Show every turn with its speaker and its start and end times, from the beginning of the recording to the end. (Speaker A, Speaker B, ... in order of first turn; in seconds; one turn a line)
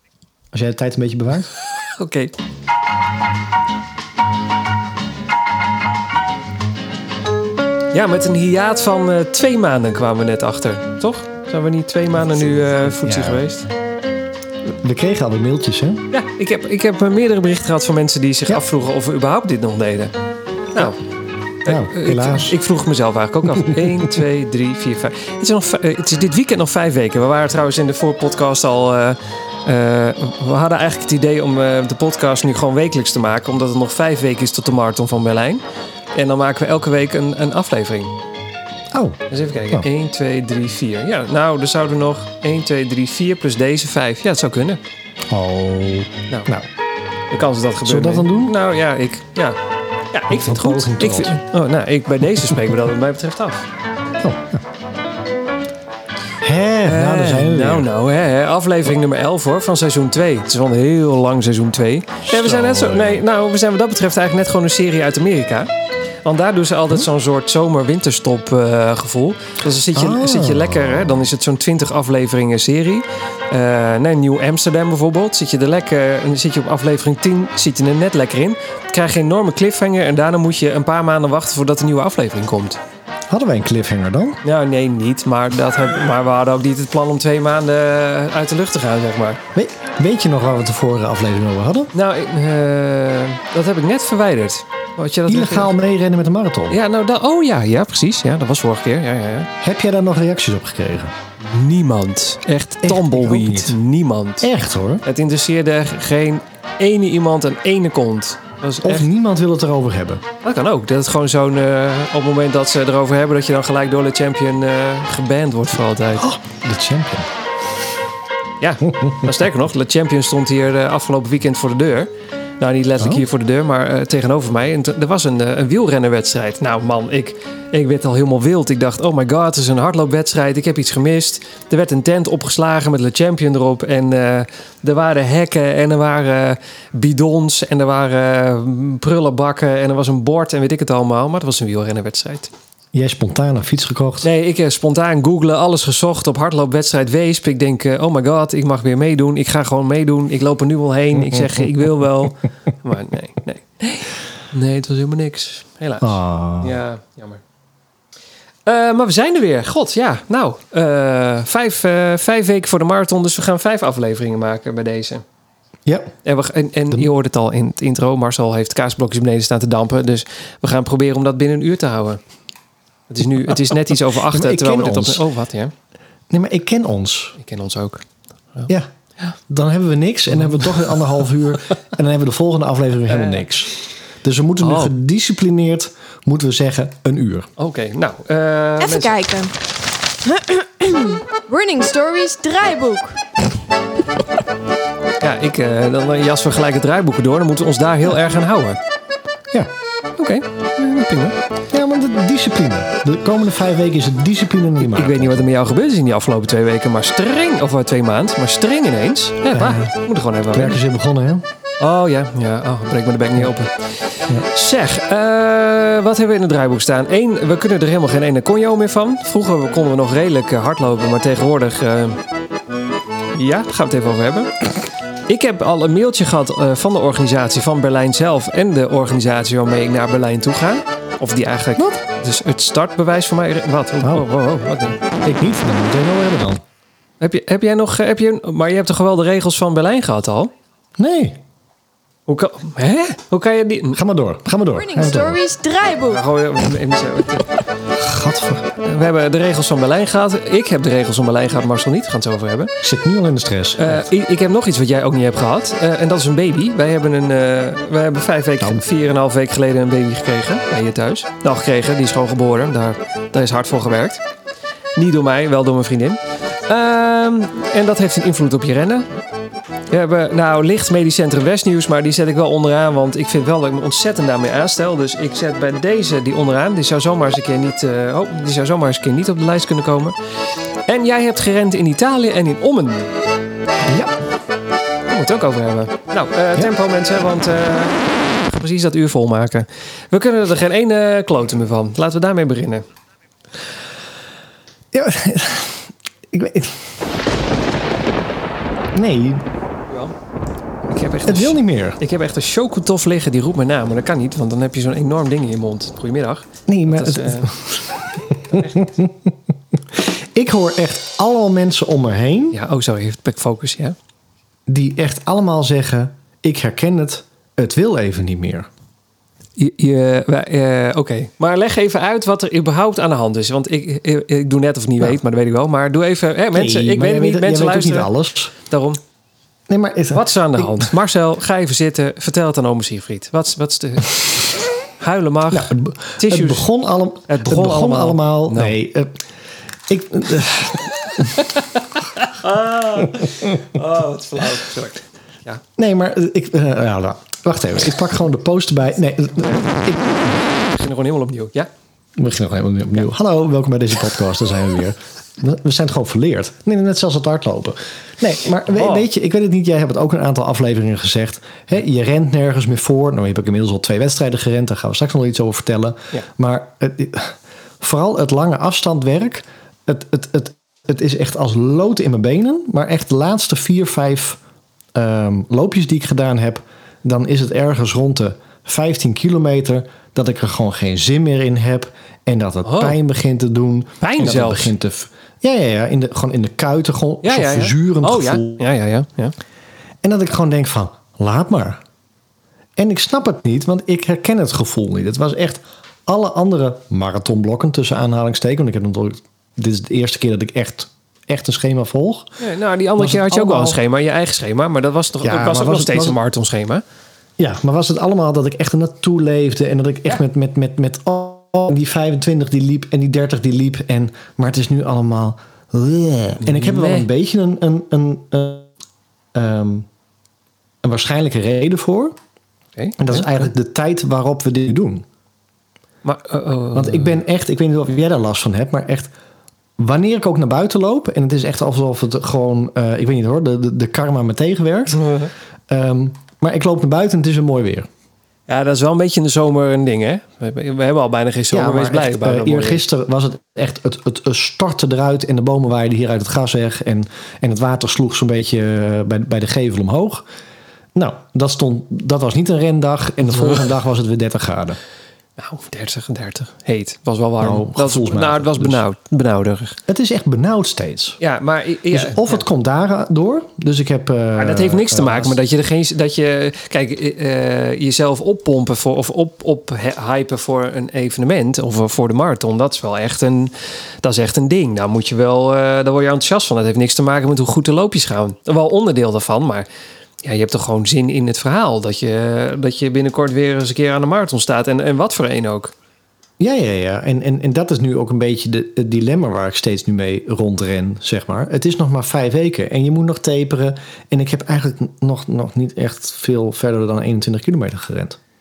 Speaker A: 0.5-1.5
Speaker B: 1.9-2.3
Speaker B: 7.9-13.7
Speaker A: 12.3-13.4
Speaker A: 14.7-16.0
Speaker B: 16.1-20.1
Speaker B: 20.7-21.0
Speaker A: 21.6-22.6
Speaker B: 21.6-35.6
Speaker A: 23.6-24.2
Speaker B: 36.1-38.1
Speaker A: 38.9-39.2
Speaker B: 39.3-44.8
Speaker A: 45.3-46.7
Speaker B: 47.3-49.6
Speaker A: 47.9-48.6
Speaker B: 50.1-53.7
Speaker A: 50.3-51.4
Speaker A: 54.2-54.6
Speaker A: 56.4-57.9
Speaker B: 56.9-65.7
Speaker A: 62.3-63.2
Speaker B: 66.2-82.8
Speaker A: 69.9-71.3
Speaker A: 83.3-84.4
Speaker B: 84.4-89.4
Speaker A: 89.5-91.9
Speaker B: 91.9-95.7
Speaker A: 95.3-96.8
Speaker B: 96.7-99.5
Speaker A: 99.6-101.1
Speaker B: 101.4-104.5
Speaker A: 102.8-103.8
Speaker A: 104.4-105.0
Speaker B: 105.0-109.1
Speaker A: 108.8-110.2
Speaker B: 110.4-116.3
Speaker A: 116.2-117.3
Speaker B: 118.6-142.5
Speaker A: 142.9-144.3
Speaker B: 144.2-157.4
Speaker A: 151.2-151.7
Speaker A: 156.0-156.8
Speaker B: 158.7-165.2
Speaker A: 165.9-166.1
Speaker B: 166.2-172.2
Speaker B: 173.1-175.7
Speaker A: 174.3-175.2
Speaker A: 176.3-177.4
Speaker B: 177.4-179.4
Speaker A: 179.5-187.5
Speaker B: 180.4-180.7
Speaker B: 183.1-183.4
Speaker B: 184.6-184.9
Speaker B: 187.6-189.2
Speaker C: 188.8-189.6
Speaker C: 190.2-193.2
Speaker B: 195.2-198.8
Speaker B: 200.2-201.3
Speaker A: 201.7-205.4
Speaker B: 204.8-210.8
Speaker A: 209.5-209.9
Speaker A: 210.5-211.4
Speaker B: 211.8-222.2
Speaker B: 223.3-224.6
Speaker B: 225.3-235.0
Speaker A: 234.0-234.3
Speaker A: 235.2-236.6
Speaker B: 237.2-240.5
Speaker A: 241.0-241.4
Speaker B: 242.3-244.0
Speaker A: 243.9-245.4
Speaker C: 244.8-246.2
Speaker B: 246.1-247.5
Speaker A: 247.9-248.7
Speaker B: 248.8-252.8
Speaker A: 252.8-254.1
Speaker B: 253.8-264.2
Speaker A: 258.6-258.9
Speaker B: 265.0-269.1
Speaker B: 269.9-280.2
Speaker B: 280.9-283.1
Speaker A: 283.9-284.1
Speaker B: 285.1-292.8
Speaker A: 294.9-296.9
Speaker A: 298.9-299.5
Speaker B: 299.9-300.1
Speaker B: 300.9-307.5
Speaker A: 301.3-302.0
Speaker A: 306.7-309.4
Speaker B: 308.5-308.9
Speaker A: 309.9-312.6
Speaker B: 312.5-314.0
Speaker A: 314.7-318.7
Speaker B: 319.6-328.1
Speaker A: 326.5-328.5
Speaker B: 328.7-329.0
Speaker A: 329.7-330.9
Speaker B: 330.1-336.7
Speaker A: 335.5-339.2
Speaker B: 337.3-338.8
Speaker A: 339.9-341.5
Speaker B: 341.4-345.6
Speaker A: 345.8-350.4
Speaker B: 349.3-349.7
Speaker B: 350.3-351.7
Speaker A: 352.2-374.4
Speaker B: 358.7-359.1
Speaker A: 374.9-388.6
Speaker B: 382.6-383.0
Speaker B: 384.0-384.7
Speaker B: 387.2-389.4
Speaker A: 390.0-391.8
Speaker A: 392.8-402.3
Speaker B: 402.4-406.8
Speaker A: 403.0-403.8
Speaker A: 405.2-406.2
Speaker A: 407.4-418.7
Speaker B: 416.4-417.1
Speaker A: 419.3-419.9
Speaker A: 420.8-422.2
Speaker B: 422.8-423.5
Speaker A: 423.0-425.1
Speaker B: 426.0-427.2
Speaker A: 426.7-429.1
Speaker A: 429.8-435.1
Speaker B: 434.9-435.3
Speaker A: 435.7-437.9
Speaker B: 438.5-442.8
Speaker A: 441.5-450.2
Speaker A: 450.9-454.8
Speaker B: 455.4-459.8
Speaker A: 457.4-458.8
Speaker A: 459.9-461.2
Speaker B: 461.2-462.4
Speaker A: 461.9-465.4
Speaker B: 464.4-479.7
Speaker B: 480.2-485.7
Speaker A: 486.4-498.2